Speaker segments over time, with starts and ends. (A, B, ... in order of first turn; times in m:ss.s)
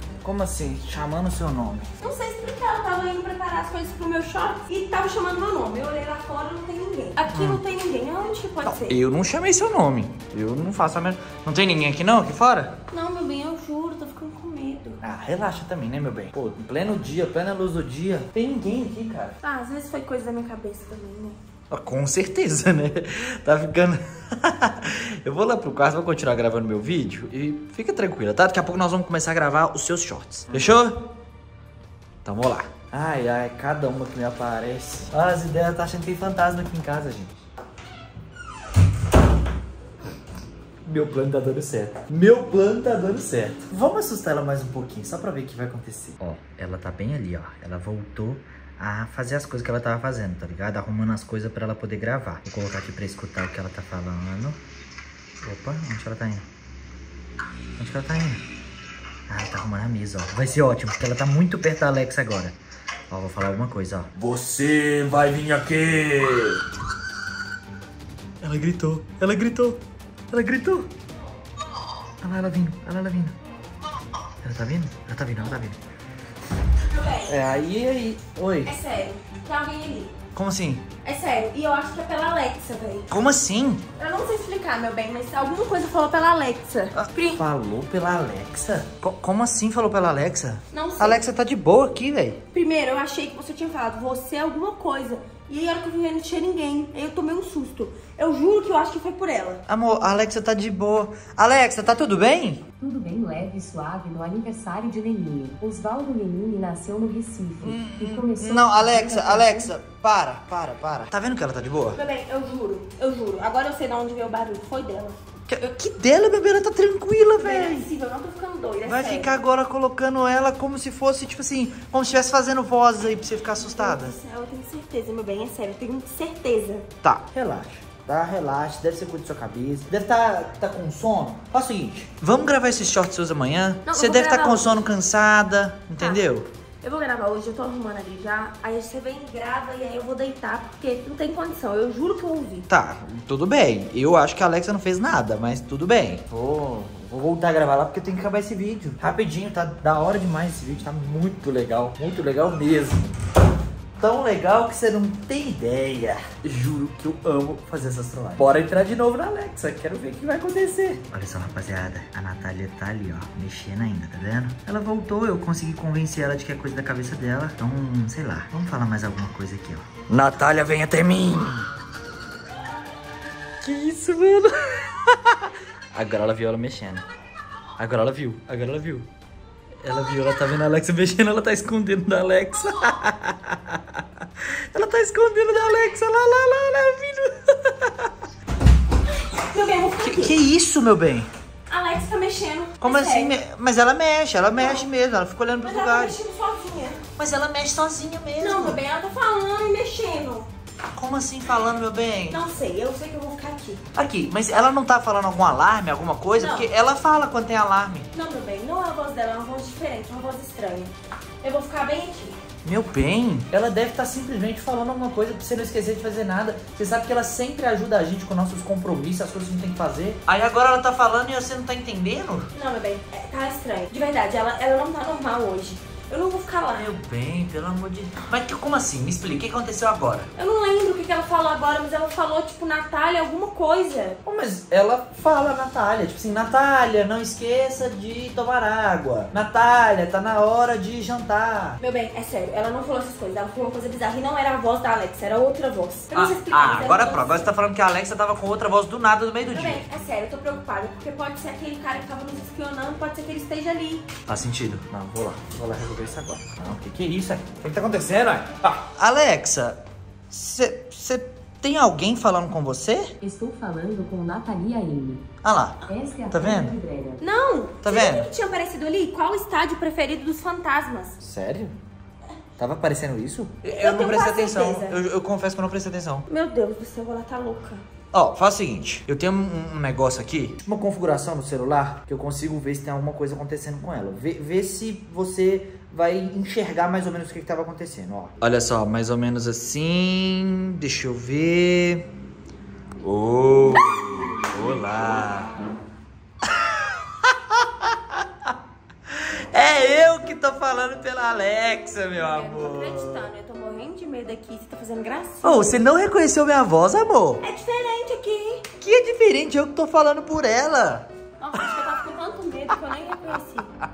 0:00.2-0:01.9 A
0:02.0-0:09.0 B
0:07.2-0:07.6 A
0:08.6-0:12.8 A
0:12.9-0:15.0 B
0:15.0-0:19.4 A
0:19.4-0:21.4 B
0:21.7-0:31.0 A
0:32.2-0:37.4 A
0:40.8-0:54.6 A
0:55.4-0:56.4 A
0:57.8-0:58.4 A
0:59.3-1:02.6 A
1:03.1-1:06.6 A
1:08.4-1:09.8 A
1:10.3-1:10.9 A
1:12.2-1:13.3 A
1:14.4-1:15.8 A
1:16.9-1:17.3 B
1:17.3-1:18.7 A
1:18.6-1:20.1 B
1:20.3-1:20.8 A
1:21.0-1:23.1 B
1:23.1-1:23.8 A
1:24.0-1:27.4 B
1:26.9-1:32.4 A
1:30.7-1:31.2 B
1:32.5-1:39.6 B
1:39.7-1:42.7 A
1:42.8-1:49.7 C
1:47.6-1:52.0 A
1:51.9-1:55.2 B
1:55.5-1:57.9 A
1:57.4-1:59.3 B
1:58.9-2:04.2 A
2:03.6-2:06.9 B
2:07.0-2:16.5 A
2:13.9-2:14.8 B
2:16.0-2:22.7 B
2:22.7-2:33.1 A
2:34.0-2:51.7 A
2:53.6-2:57.0 A
2:57.8-2:59.1 A
2:59.8-3:04.0 A
3:04.7-3:08.1 A
3:09.3-3:10.4 B
3:10.0-3:11.3 A
3:11.7-3:13.4 B
3:12.8-3:16.2 A
3:14.6-3:14.9 B
3:15.6-3:17.0 B
3:17.2-3:18.8 A
3:18.4-3:20.5 B
3:21.0-3:22.4 A
3:22.3-3:23.8 B
3:23.9-3:28.1 A
3:26.4-3:26.7 B
3:28.1-3:32.4 B
3:32.6-3:42.5 A
3:42.5-3:46.9 B
3:46.7-3:50.3 A
3:50.4-3:54.2 B
3:54.2-4:01.8 A
4:01.8-4:07.5 B
4:06.1-4:09.9 A
4:09.5-4:14.1 B
4:14.2-4:23.1 A
4:23.2-4:25.2 C
4:25.4-4:26.8 A
4:25.9-4:27.2 C
4:27.2-4:31.2 B
4:27.8-4:28.3 A
4:31.2-4:31.8 A
4:32.6-4:36.2 A
4:33.8-4:35.0 B
4:36.3-4:37.8 B
4:38.1-4:52.1 A
4:53.0-4:55.5 A
4:56.6-4:57.9 A
4:59.2-5:03.3 A
5:02.2-5:05.8 B
5:05.4-5:07.4 A
5:07.4-5:08.6 B
5:08.8-5:11.1 A
5:11.4-5:13.7 B